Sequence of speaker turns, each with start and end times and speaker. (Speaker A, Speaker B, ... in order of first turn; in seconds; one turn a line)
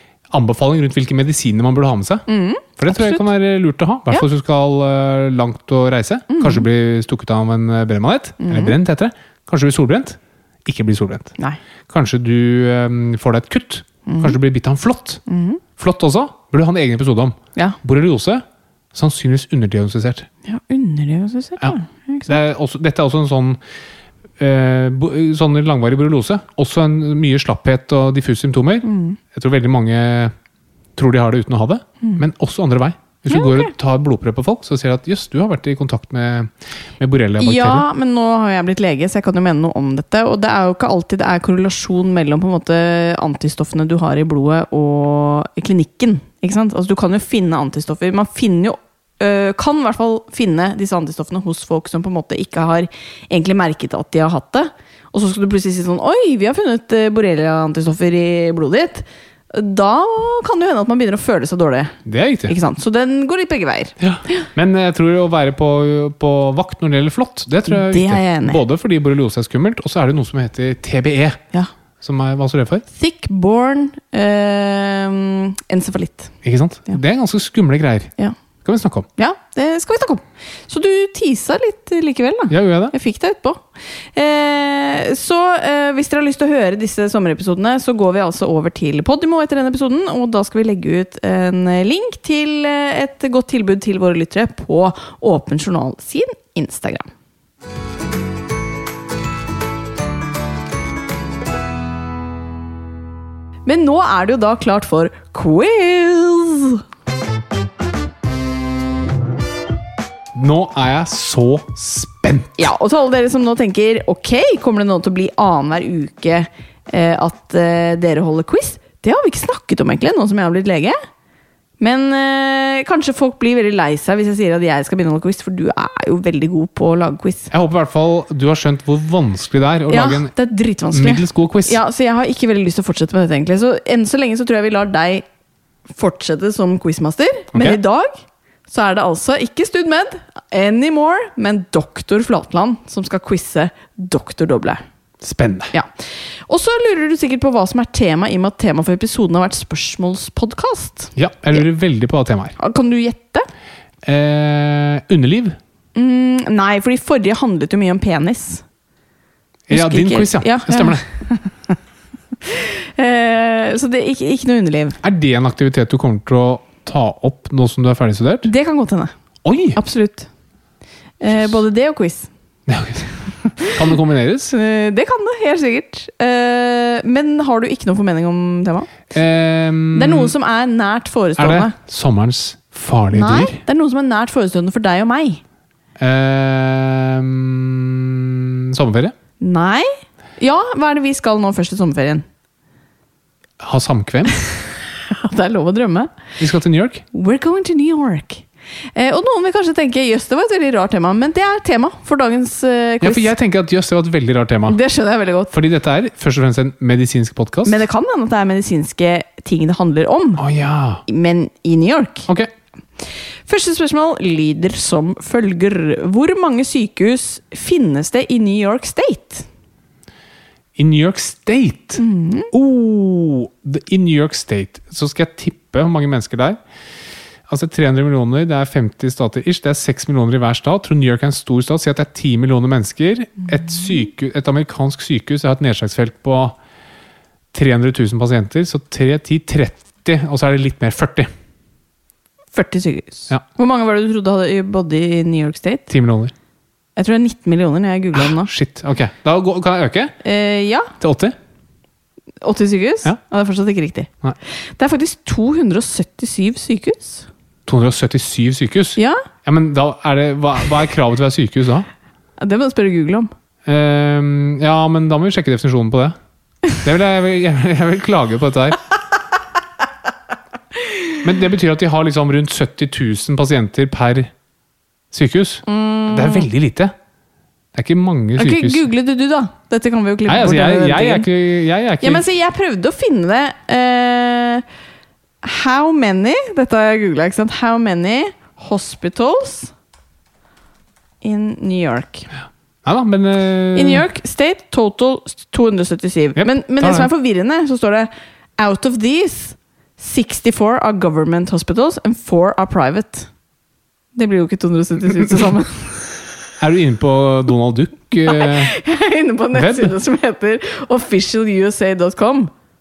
Speaker A: 0.3-2.2
Speaker B: 2.3-3.2
Speaker A: 2.8-11.3
Speaker B: 6.3-6.7
Speaker B: 8.4-8.7
Speaker A: 11.9-15.2
Speaker B: 14.1-14.4
Speaker B: 15.2-15.6
Speaker A: 15.8-20.3
Speaker B: 20.4-22.3
Speaker A: 22.3-23.6
Speaker A: 24.4-30.3
Speaker B: 28.8-29.2
Speaker A: 30.9-37.9
Speaker B: 33.3-33.7
Speaker B: 37.4-64.5
Speaker A: 62.0-62.5
Speaker A: 64.0-71.4
Speaker B: 67.7-68.6
Speaker A: 72.0-72.8
Speaker B: 72.9-76.3
Speaker A: 76.4-78.1
Speaker A: 78.6-79.1
Speaker B: 79.2-97.1
Speaker A: 82.5-82.9
Speaker B: 103.7-106.8
Speaker A: 110.3-112.7
Speaker B: 112.6-121.0
Speaker B: 121.8-127.5
Speaker A: 127.5-130.3
Speaker B: 129.9-135.2
Speaker A: 130.9-131.8
Speaker B: 135.9-144.8
Speaker A: 137.5-137.8
Speaker A: 145.2-145.7
Speaker B: 145.7-151.6
Speaker A: 151.2-152.6
Speaker B: 152.6-153.5
Speaker A: 154.0-155.6
Speaker B: 155.9-158.6
Speaker A: 159.7-161.0
Speaker B: 159.7-161.8
Speaker B: 162.4-165.0
Speaker A: 165.0-168.5
Speaker B: 168.4-169.1
Speaker A: 169.4-169.8
Speaker B: 169.7-170.3
Speaker B: 171.2-172.3
Speaker A: 172.7-174.5
Speaker B: 174.5-179.0
Speaker A: 179.1-180.3
Speaker B: 179.9-181.7
Speaker A: 181.4-183.6
Speaker B: 183.1-185.4
Speaker A: 186.0-189.1
Speaker B: 189.4-189.9
Speaker B: 190.4-192.2
Speaker A: 193.6-194.4
Speaker B: 195.1-196.2
Speaker A: 196.4-197.0
Speaker B: 197.1-203.3
Speaker A: 203.0-204.8
Speaker B: 204.7-205.5
Speaker A: 205.5-207.8
Speaker B: 207.6-210.4
Speaker A: 210.4-211.0
Speaker B: 211.1-212.3
Speaker B: 213.5-219.4
Speaker A: 220.8-226.6
Speaker B: 222.0-222.5
Speaker A: 227.5-236.6
Speaker A: 237.5-241.3
Speaker B: 242.5-245.9
Speaker A: 245.9-246.3
Speaker B: 246.9-248.5
Speaker A: 248.1-250.1
Speaker B: 250.2-250.9
Speaker A: 251.0-251.3
Speaker B: 252.4-257.2
Speaker A: 257.6-261.9
Speaker B: 259.0-259.2
Speaker B: 262.4-263.3
Speaker A: 263.6-266.2
Speaker A: 266.8-268.8
Speaker A: 271.2-274.3
Speaker A: 275.1-276.9
Speaker B: 275.6-276.5
Speaker A: 277.7-278.9
Speaker B: 278.4-281.3
Speaker A: 280.3-282.2
Speaker B: 282.0-284.6
Speaker B: 285.4-289.7
Speaker B: 291.2-292.3
Speaker A: 292.8-294.0
Speaker B: 293.7-303.3
Speaker A: 296.4-297.1
Speaker B: 304.1-305.9
Speaker A: 306.6-308.7
Speaker B: 308.2-312.5
Speaker A: 309.5-309.9